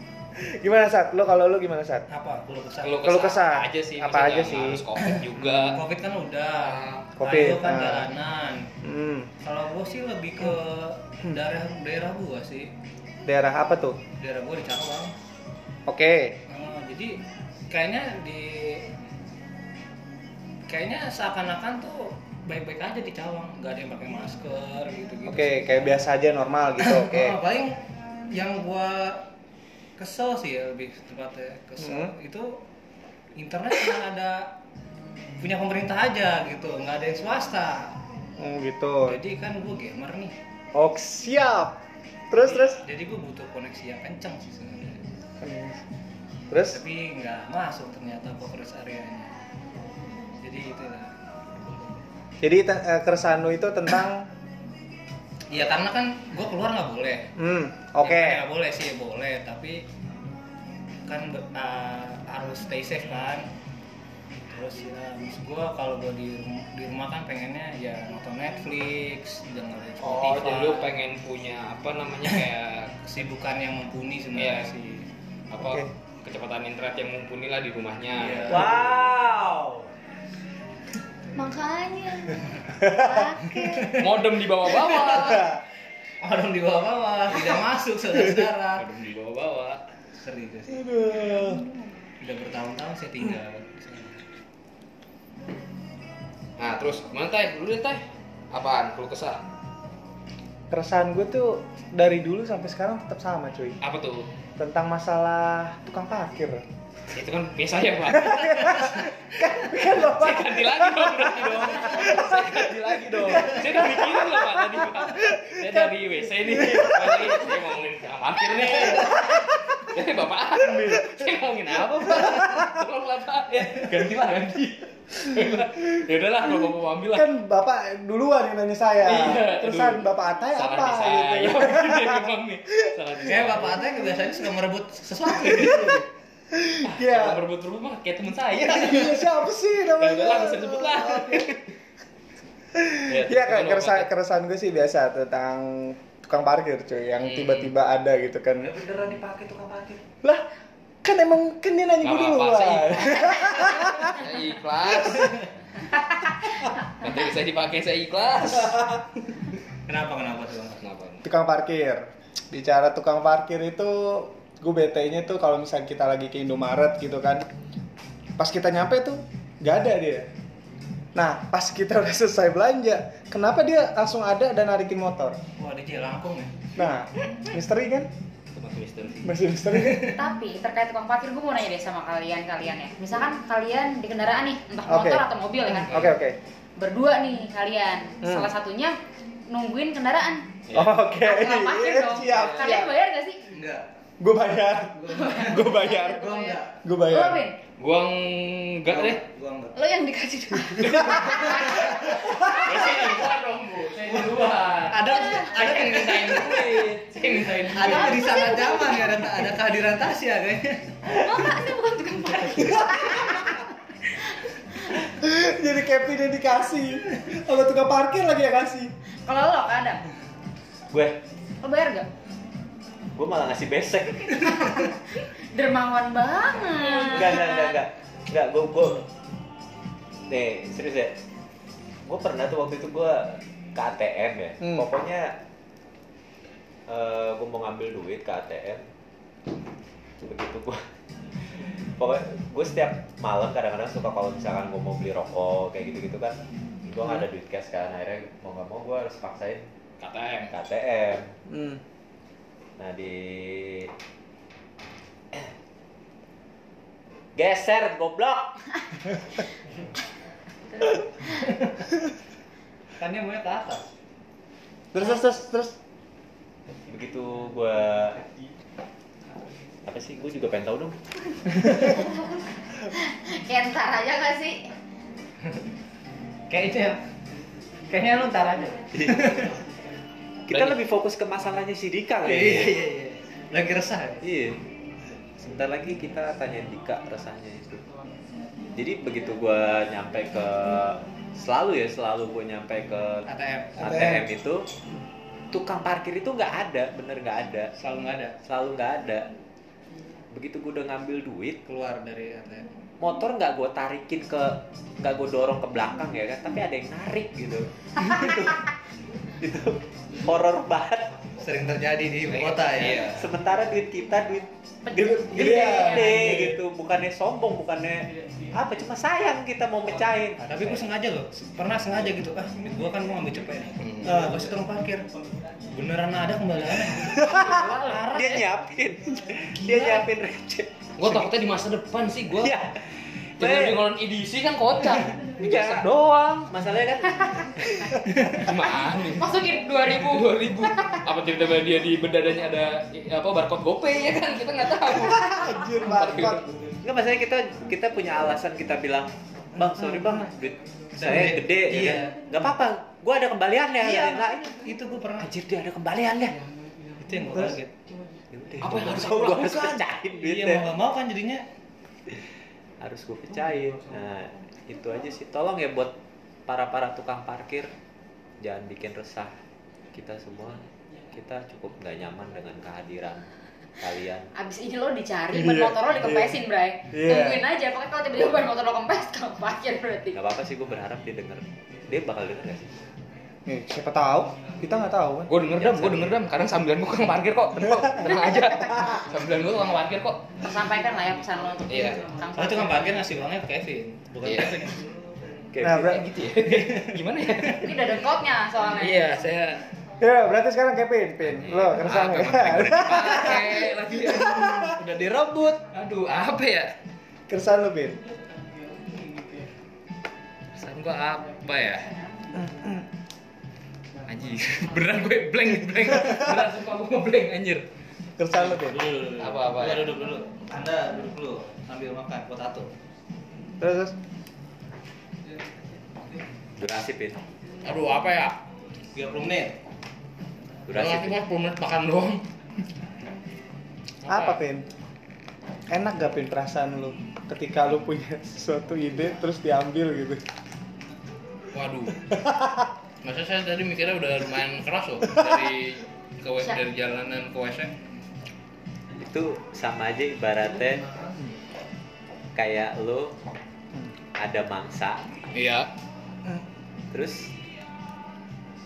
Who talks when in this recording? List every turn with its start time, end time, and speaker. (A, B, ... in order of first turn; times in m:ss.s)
0:00.4-0:02.0 A
0:02.1-0:03.0 B
0:02.8-0:05.8 C
0:03.0-0:04.8 A
0:05.0-0:08.7 B
0:06.6-0:07.2 C
0:07.2-0:08.1 A
0:08.8-0:09.3 A
0:09.4-0:12.7 B
0:13.2-0:14.0 A
0:14.2-0:15.1 B
0:15.9-0:16.4 A
0:16.5-0:17.2 B
0:17.7-0:18.9 B
0:20.7-0:25.9 B
0:25.2-0:27.4 A
0:26.8-0:29.3 B
0:30.0-0:32.6 B
0:31.8-0:32.1 A
0:33.4-0:34.5 B
0:35.4-0:38.0 B
0:38.4-0:39.2 A
0:39.0-0:40.3 B
0:40.7-0:41.8 A
0:42.3-0:42.8 A
0:42.3-0:45.0 B
0:45.4-0:45.8 A
0:46.5-0:46.8 A
0:46.7-0:49.4 B
0:50.4-0:51.1 B
0:52.4-0:54.3 A
0:55.5-0:57.3 B
0:57.4-0:58.4 A
0:58.0-0:59.8 B
1:01.0-1:03.5 B
1:04.5-1:10.9 B
1:10.0-1:13.0 C
1:13.0-1:15.1 B
1:14.3-1:14.7 C
1:15.5-1:18.8 C
1:15.6-1:15.9 A
1:18.1-1:18.9 B
1:18.5-1:19.9 D
1:21.3-1:24.0 E
1:22.8-1:23.1 A
1:23.6-1:24.1 B
1:24.0-1:25.5 C
1:24.9-1:25.4 B
1:25.3-1:25.6 A
1:26.2-1:28.9 B
1:28.8-1:29.8 C
1:30.1-1:30.9 B
1:30.7-1:31.6 A
1:31.0-1:32.1 E
1:32.2-1:34.2 B
1:36.6-1:39.4 C
1:40.7-1:43.8 A
1:43.8-1:44.3 C
1:44.6-1:46.6 A
1:47.1-1:49.0 C
1:48.1-1:57.5 A
1:50.0-2:07.3 C
1:58.6-1:59.4 A
2:00.6-2:01.3 A
2:02.1-2:02.7 A
2:03.8-2:04.1 B
2:07.1-2:13.3 A
2:09.0-2:13.8 C
2:13.2-2:16.1 B
2:15.5-2:16.0 A
2:16.5-2:17.4 A
2:16.8-2:19.3 C
2:18.5-2:21.6 A
2:19.9-2:21.6 C
2:22.7-2:28.7 A
2:23.1-2:24.1 C
2:27.2-2:27.7 C
2:28.6-2:30.0 D
2:31.0-2:34.2 A
2:32.0-2:35.5 C
2:36.8-2:39.0 C
2:39.9-2:40.8 B
2:40.8-2:41.2 C
2:41.2-2:47.5 A
2:48.4-2:50.3 A
2:51.1-2:55.4 A
2:55.6-2:56.6 B
2:56.8-2:58.1 A
2:58.5-2:59.3 C
2:59.2-3:00.2 A
2:59.8-3:00.1 B
3:00.1-3:06.0 F
3:04.9-3:06.4 A
3:06.8-3:09.0 F
3:08.2-3:08.5 A
3:09.5-3:10.4 F
3:10.7-3:11.0 C
3:10.7-3:12.9 A
3:11.2-3:13.4 F
3:12.2-3:12.8 C
3:13.5-3:13.8 B
3:14.2-3:17.5 A
3:15.0-3:16.7 B
3:16.0-3:16.5 E
3:17.1-3:17.6 F
3:17.8-3:19.2 C
3:18.9-3:19.8 B
3:19.7-3:21.8 E
3:21.0-3:28.3 C
3:21.2-3:22.1 B
3:22.2-3:22.6 A
3:24.0-3:26.8 B
3:25.0-3:25.9 E
3:27.6-3:31.0 B
3:27.8-3:29.4 E
3:31.0-3:33.4 E
3:32.6-3:33.5 A
3:35.0-3:38.9 A
3:39.2-3:40.0 F
3:40.9-3:41.2 D
3:41.6-3:42.1 F
3:43.1-3:44.8 D
3:44.4-3:47.6 F
3:46.8-3:47.7 E
3:47.0-3:49.1 D
3:50.3-3:51.1 D
3:52.0-3:55.4 D
3:56.9-3:58.8 D
4:00.2-4:00.8 D
4:02.0-4:09.7 D
4:10.0-4:10.5 C
4:10.5-4:11.4 D
4:11.5-4:11.8 A
4:12.8-4:13.9 D
4:17.4-4:18.8 D
4:23.0-4:23.9 B
4:24.9-4:25.8 A
4:26.9-4:28.2 D
4:29.8-4:31.0 D
4:31.8-4:32.1 F
4:32.9-4:34.7 F
4:36.5-4:37.0 B
4:37.9-4:39.5 B
4:38.9-4:39.5 D
4:40.5-4:42.8 D
4:40.5-4:40.8 C
4:42.2-4:44.2 B
4:44.2-4:44.6 D
4:45.4-4:47.9 D
4:48.7-4:54.6 D
4:53.3-4:54.2 B
4:55.5-4:57.7 D
4:57.8-4:58.4 B
4:58.4-4:59.3 D
5:00.3-5:01.6 D
5:01.6-5:02.7 B
5:03.0-5:08.7 D
5:09.4-5:11.3 D
5:11.4-5:13.1 B
5:12.3-5:13.3 C
5:13.0-5:20.9 D
5:14.8-5:16.2 F
5:15.0-5:16.6 A
5:20.4-5:25.1 B
5:23.8-5:24.2 C
5:25.7-5:28.6 B
5:27.3-5:28.0 F
5:27.3-5:31.6 D
5:29.5-5:30.1 B
5:31.0-5:32.5 C
5:32.3-5:33.9 D
5:33.4-5:35.9 C
5:35.3-5:38.5 D
5:38.3-5:46.4 C
5:39.2-5:41.0 F
5:44.9-5:46.5 A
5:46.8-5:54.6 D
5:51.0-5:52.2 B
5:53.8-5:55.3 B
5:55.2-5:56.4 D
5:57.0-5:57.7 B
5:58.3-6:00.7 D
5:58.7-5:59.0 C
6:00.2-6:01.4 B
6:02.8-6:05.9 D
6:06.4-6:07.7 D
6:08.4-6:09.4 D
6:09.9-6:14.3 D
6:14.3-6:20.2 F
6:15.3-6:16.4 A
6:16.9-6:17.4 A
6:20.1-6:22.7 D
6:23.4-6:25.3 A
6:25.3-6:30.3 C
6:25.6-6:26.2 D
6:30.4-6:32.9 F
6:31.7-6:32.1 C
6:32.3-6:34.9 B
6:34.2-6:34.7 C
6:35.5-6:35.9 D
6:35.6-6:36.2 A
6:35.6-6:38.0 C
6:36.3-6:37.6 B
6:37.6-6:39.1 F
6:38.8-6:39.6 C
6:40.0-6:44.7 A
6:41.3-6:46.7 C
6:44.8-6:45.6 B
6:47.3-6:48.0 A
6:50.5-6:51.9 C
6:52.3-6:52.9 A
6:54.1-6:57.6 C
6:58.2-6:58.9 A
6:58.3-7:02.7 B
6:59.2-7:00.0 C
7:03.6-7:03.9 A
7:06.6-7:07.2 D
7:07.6-7:08.4 C
7:08.9-7:09.6 B
7:10.7-7:11.2 D
7:10.7-7:12.2 C
7:14.0-7:14.4 C
7:14.1-7:14.6 A
7:15.7-7:20.2 A
7:21.5-7:22.1 C
7:22.1-7:22.5 A
7:23.0-7:27.7 C
7:28.9-7:31.0 D
7:32.3-7:33.2 D
7:34.2-7:35.2 D
7:35.3-7:35.7 C
7:36.9-7:37.3 D